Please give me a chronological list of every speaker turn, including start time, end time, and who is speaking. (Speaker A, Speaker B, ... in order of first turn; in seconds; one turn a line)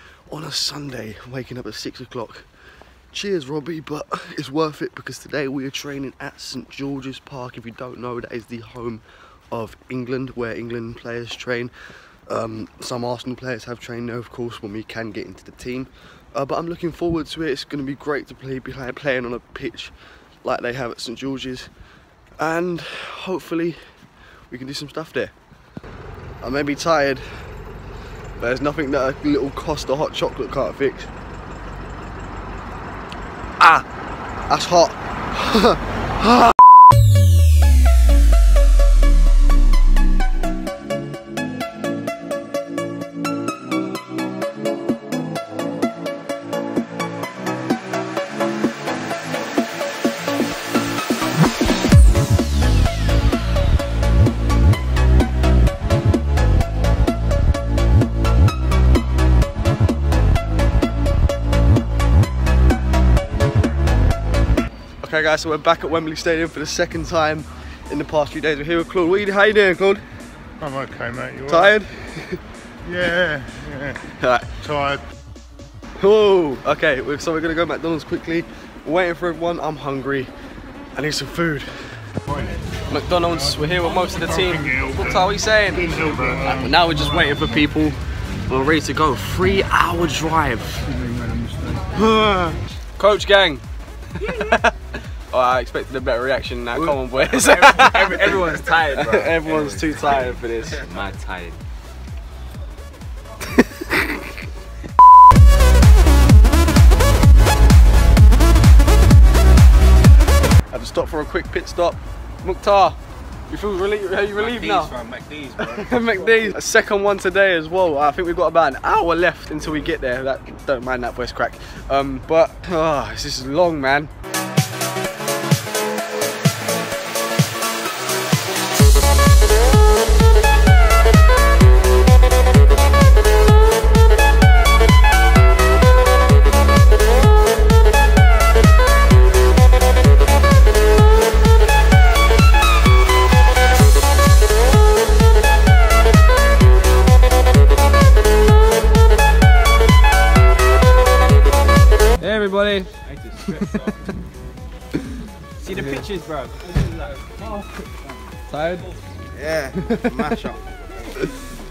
Speaker A: 0.3-2.5
Speaker A: 3.1-11.7
Speaker A: 12.3-21.7
Speaker A: 22.4-23.8
Speaker A: 24.5-25.3
Speaker A: 26.4-27.3
Speaker A: 28.4-31.1
Speaker A: 33.6-33.9
Speaker A: 34.5-36.6
Speaker A: 65.0-70.0
Speaker B: 70.6-71.8
Speaker A: 71.5-72.4
Speaker B: 72.8-74.0
Speaker A: 74.1-74.6
Speaker B: 74.6-75.1
Speaker A: 76.0-80.3
Speaker A: 81.0-81.7
Speaker A: 82.9-91.0
Speaker B: 84.7-85.0
Speaker B: 85.9-86.6
Speaker B: 91.1-91.8
Speaker A: 91.9-93.6
Speaker A: 94.2-100.9
Speaker C: 96.7-101.6
Speaker A: 103.4-104.4
Speaker A: 110.7-113.0
Speaker A: 113.5-114.9
Speaker C: 114.4-116.5
Speaker A: 115.6-124.1
Speaker A: 152.2-152.9
Speaker C: 152.3-153.9
Speaker A: 153.5-153.9
Speaker C: 155.6-157.7
Speaker A: 158.6-158.9
Speaker C: 159.4-160.5
Speaker A: 159.7-160.5